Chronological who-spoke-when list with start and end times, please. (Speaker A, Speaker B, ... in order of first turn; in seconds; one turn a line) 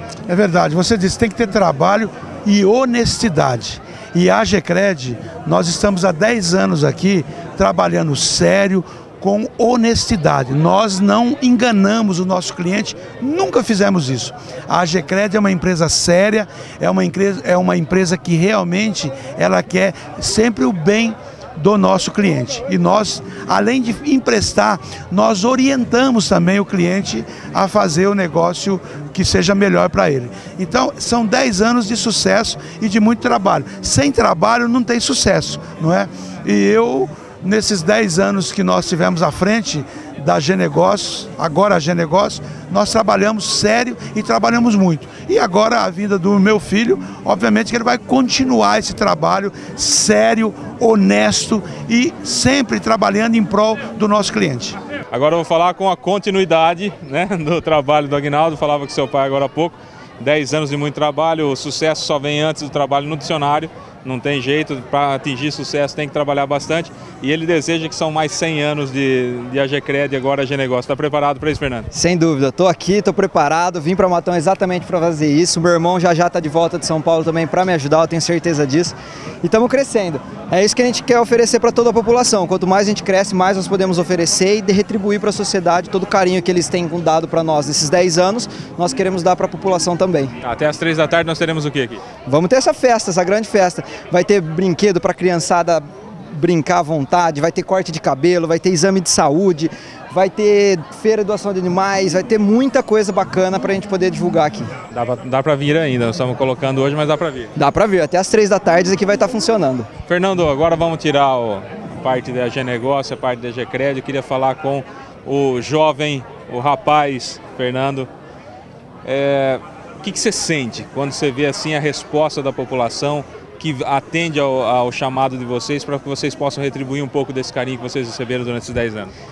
Speaker A: 0.3-54.8
Speaker B: 55.1-71.9
Speaker C: 71.9-90.3
Speaker B: 90.4-92.0
Speaker C: 92.3-104.7
Speaker B: 104.9-107.5
Speaker C: 107.6-109.9
Speaker B: 110.1-118.1
Speaker B: 119.0-129.1